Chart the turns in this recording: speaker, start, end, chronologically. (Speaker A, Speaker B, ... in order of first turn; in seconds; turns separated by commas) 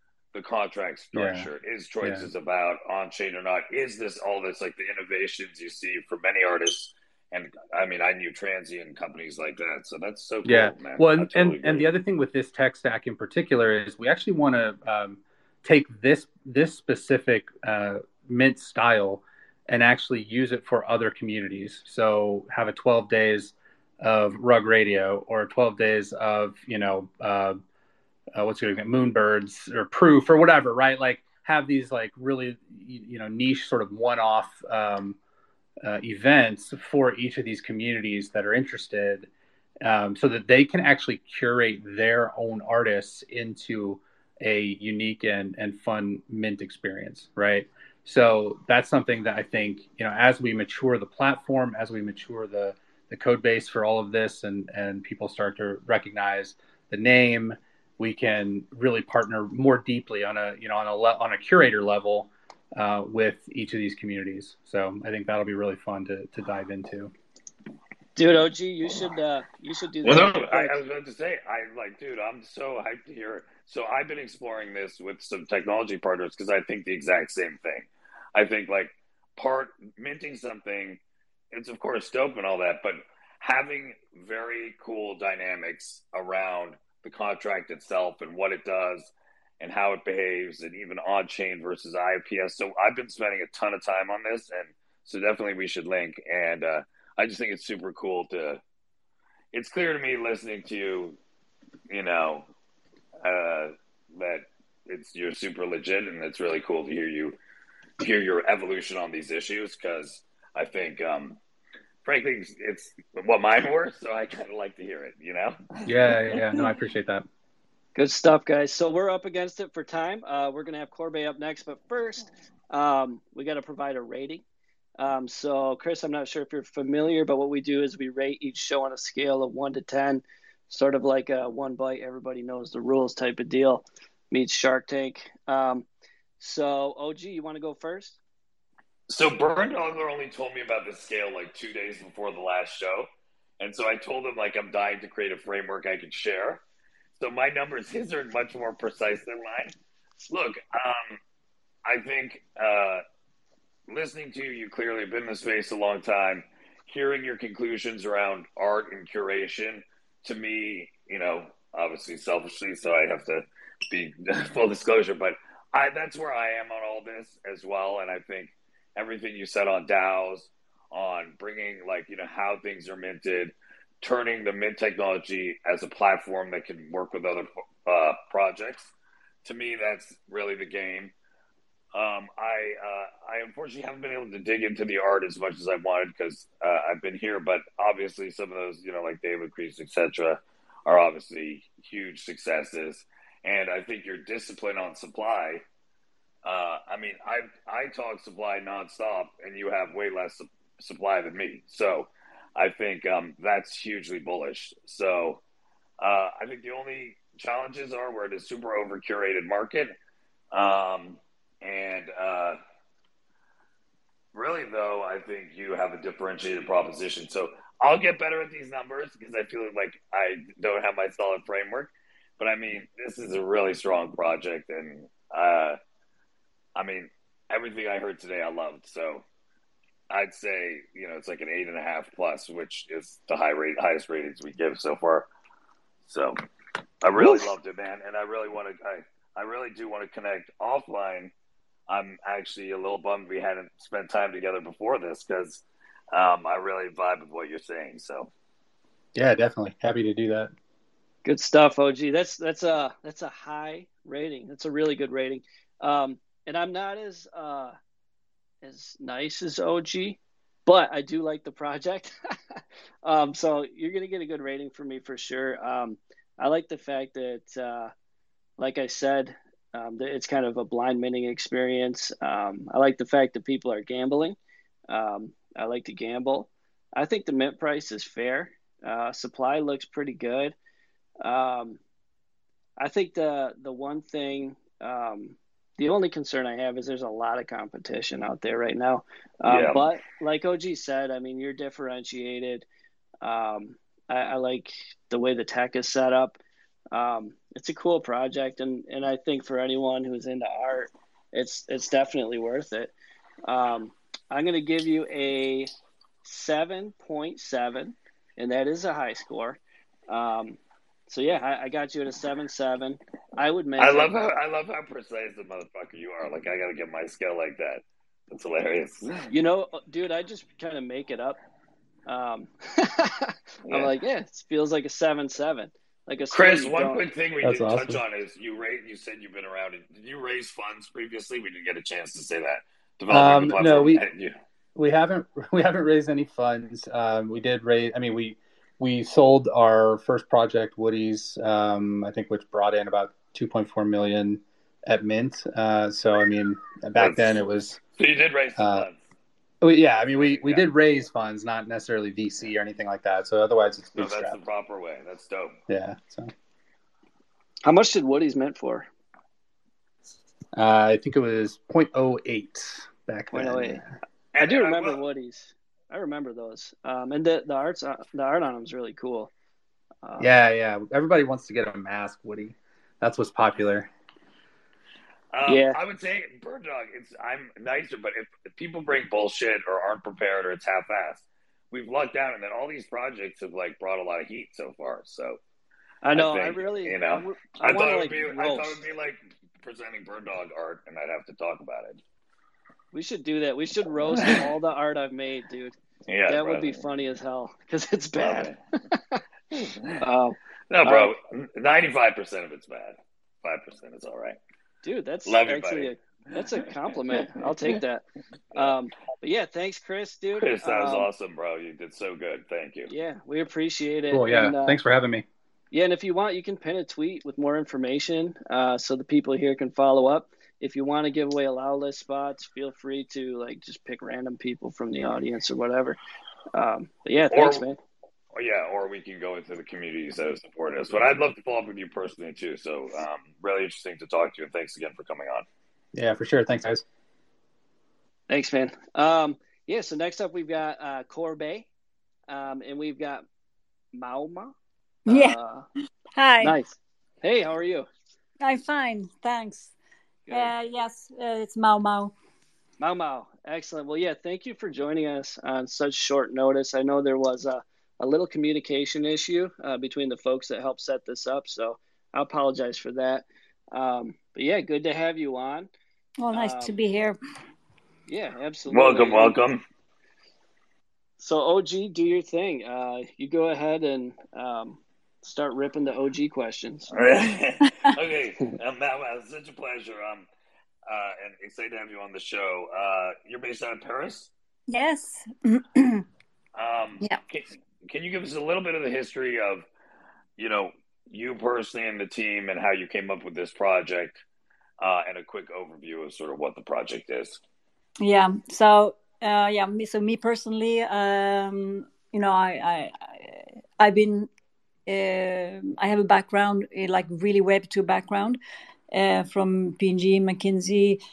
Speaker A: 0.3-11.9, Speaker B: 1.1-1.5, Speaker B: 2.0-2.3, Speaker B: 10.4-27.6, Speaker B: 28.4-35.2, Speaker B: 35.8-39.3, Speaker B: 39.8-67.1, Speaker C: 68.2-70.8, Speaker A: 70.0-81.0, Speaker A: 81.5-98.6, Speaker A: 99.5-101.2, Speaker A: 101.9-102.5, Speaker A: 103.2-107.4, Speaker A: 108.0-111.4, Speaker A: 112.0-115.8, Speaker B: 115.8-117.3, Speaker C: 118.0-124.4, Speaker C: 125.0-135.9, Speaker C: 136.4-138.2, Speaker A: 139.1-143.1, Speaker A: 143.6-146.6, Speaker A: 147.2-149.8, Speaker A: 150.3-151.2, Speaker A: 151.8-153.0, Speaker A: 153.9-178.9, Speaker A: 179.4-181.1, Speaker A: 181.9-195.6, Speaker A: 196.4-205.4, Speaker A: 206.0-209.9, Speaker A: 210.5-212.6, Speaker A: 214.3-225.8, Speaker A: 226.8-229.2, Speaker A: 230.1-235.3, Speaker A: 236.1-236.4, Speaker A: 237.0-241.3, Speaker A: 241.9-248.3, Speaker B: 249.2-250.5, Speaker C: 251.2-257.8, Speaker C: 258.6-267.9, Speaker C: 268.6-274.4, Speaker C: 274.9-280.6, Speaker C: 281.2-281.8, Speaker C: 282.8-292.6, Speaker A: 289.5-289.9, Speaker C: 293.2-296.4, Speaker C: 296.9-302.9, Speaker C: 303.4-305.7, Speaker C: 306.2-314.2, Speaker A: 313.8-319.3, Speaker C: 319.3-321.4, Speaker C: 322.1-327.1, Speaker A: 326.3-334.4, Speaker B: 327.4-328.0, Speaker B: 333.1-334.0, Speaker B: 334.8-347.8, Speaker A: 347.0-347.3, Speaker A: 347.9-349.0, Speaker B: 348.6-348.9, Speaker B: 349.6-354.4, Speaker A: 350.0-350.7, Speaker A: 354.0-355.6, Speaker B: 355.7-356.3, Speaker C: 357.6-358.9, Speaker B: 360.6-363.8, Speaker C: 363.3-363.8, Speaker A: 364.3-365.0, Speaker C: 364.4-369.3, Speaker C: 370.0-370.3, Speaker B: 370.2-373.9, Speaker A: 375.3-385.4, Speaker C: 375.5-375.8, Speaker C: 386.0-388.8, Speaker A: 386.1-392.0, Speaker C: 392.9-395.8, Speaker A: 394.2-394.4, Speaker A: 396.1-396.8, Speaker C: 396.3-399.2, Speaker A: 398.2-398.6, Speaker A: 399.5-400.0, Speaker C: 400.0-401.1, Speaker A: 400.7-404.4, Speaker C: 404.8-411.1, Speaker A: 405.2-405.9, Speaker A: 407.2-407.8, Speaker A: 410.4-412.9, Speaker C: 412.9-414.8, Speaker B: 414.1-415.2, Speaker C: 415.7-426.0, Speaker C: 426.5-427.8, Speaker A: 427.3-427.6, Speaker A: 428.3-435.5, Speaker B: 435.9-436.8, Speaker C: 438.3-441.7, Speaker C: 442.3-443.2, Speaker C: 443.9-444.5, Speaker D: 445.1-445.4, Speaker C: 445.1-445.6, Speaker D: 446.1-446.6, Speaker C: 446.4-447.9, Speaker D: 448.4-449.7, Speaker C: 450.3-450.5, Speaker D: 450.3-452.1, Speaker C: 452.8-465.7, Speaker D: 466.2-467.2, Speaker C: 466.3-466.8, Speaker C: 468.1-469.4, Speaker A: 468.7-469.6, Speaker C: 471.2-476.9, Speaker A: 476.9-480.3, Speaker A: 480.9-484.3, Speaker D: 484.7-486.1, Speaker A: 486.6-489.7, Speaker A: 490.4-494.2, Speaker A: 494.8-497.4, Speaker D: 498.0-504.3, Speaker D: 504.9-508.4, Speaker D: 508.9-511.0